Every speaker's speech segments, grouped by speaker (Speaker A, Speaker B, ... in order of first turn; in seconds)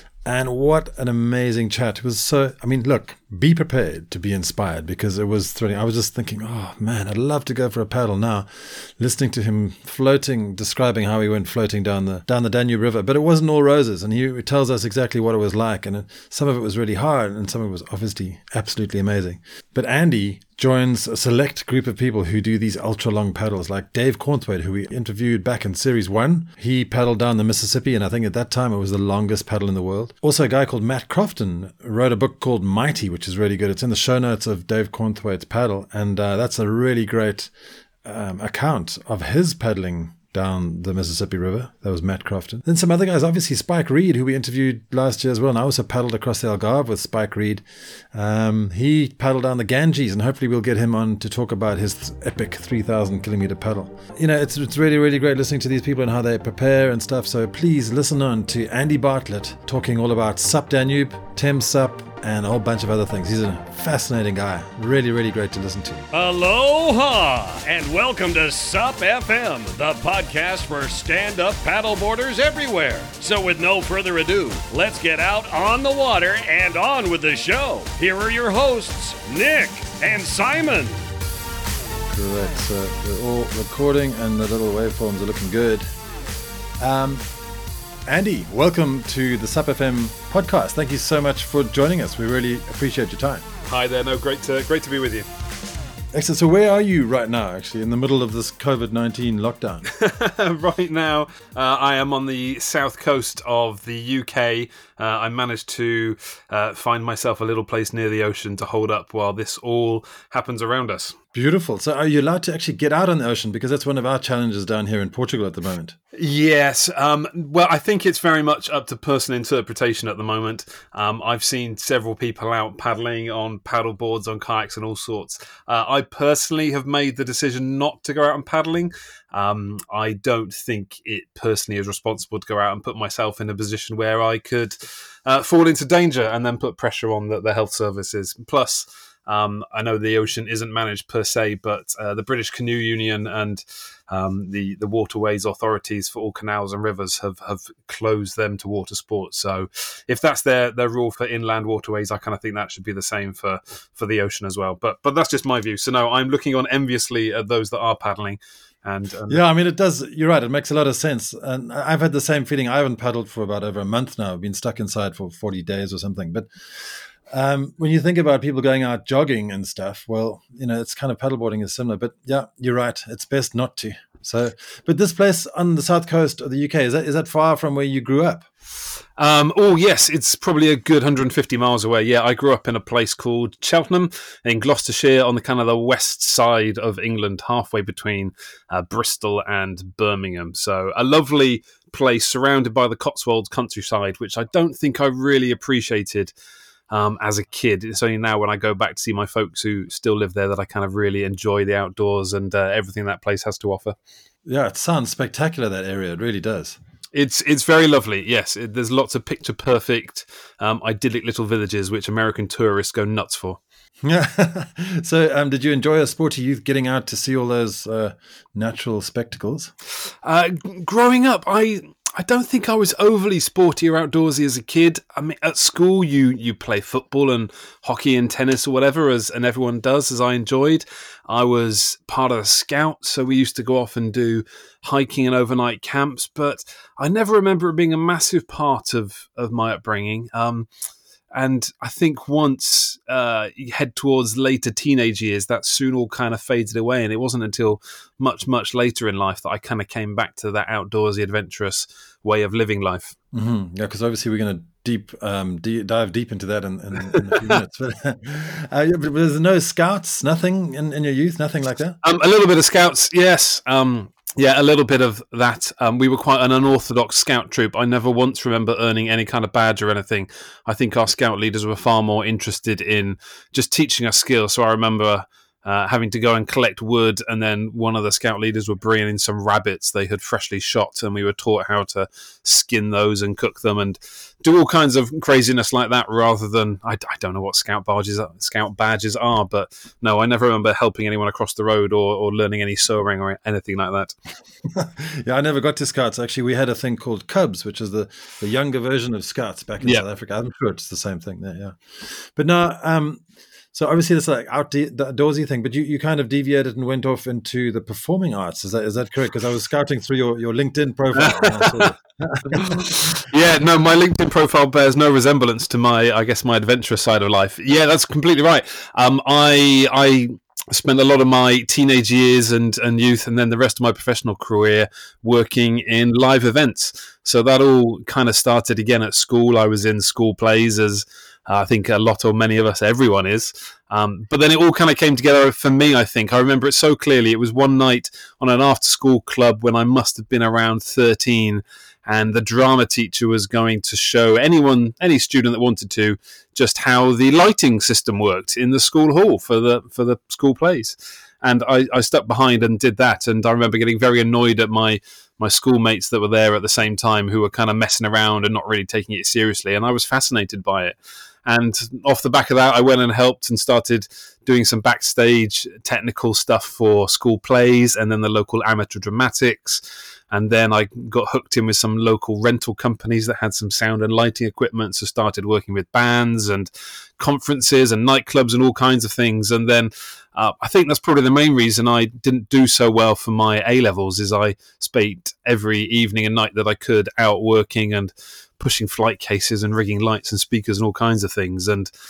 Speaker A: 0.2-37.5, 38.0-66.0, 82.1-85.9, 86.8-87.2, 88.1-93.5, 96.1-99.9, 111.3-116.0, 159.3-178.5, 204.4-206.8, 214.0-219.7, 253.3-262.0, 294.7-312.9
Speaker B: 66.1-81.0
Speaker C: 93.7-95.3, 99.9-111.2, 116.1-159.4, 179.2-196.3, 196.9-204.0, 207.1-213.6, 220.2-240.7, 241.3-253.2, 262.0-294.1, 311.1-311.9, 312.5-391.9